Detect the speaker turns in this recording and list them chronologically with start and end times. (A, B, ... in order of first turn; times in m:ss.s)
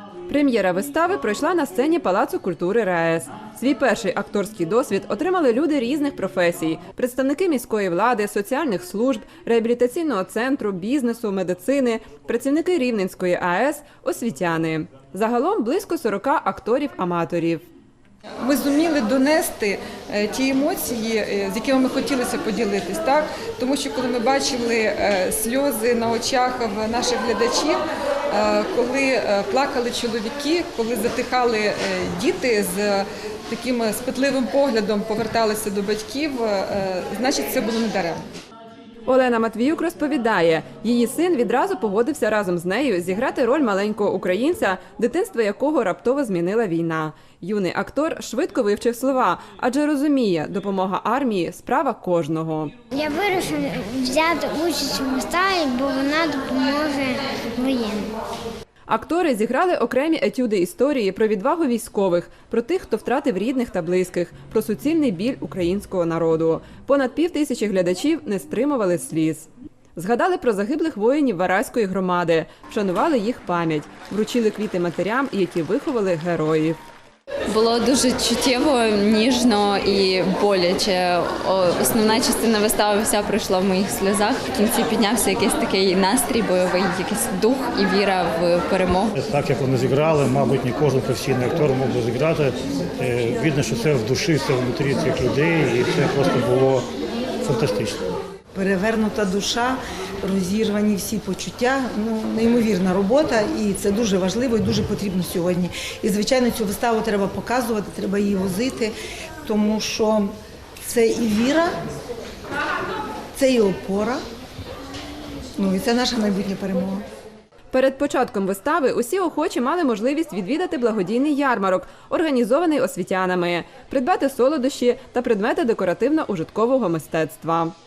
0:00.3-0:17.6 A
0:18.4-0:38.2 B
0:39.1-0:52.7 A
0:52.9-0:58.2 C
0:58.9-1:16.8 A
1:17.5-1:29.1 D
1:29.2-1:36.8 E
1:37.4-1:38.0 E
1:38.5-1:48.9 F
1:49.4-1:50.3 F
1:50.8-1:51.7 F
1:53.4-1:54.2 F
1:55.6-1:57.0 F
1:57.7-2:07.7 A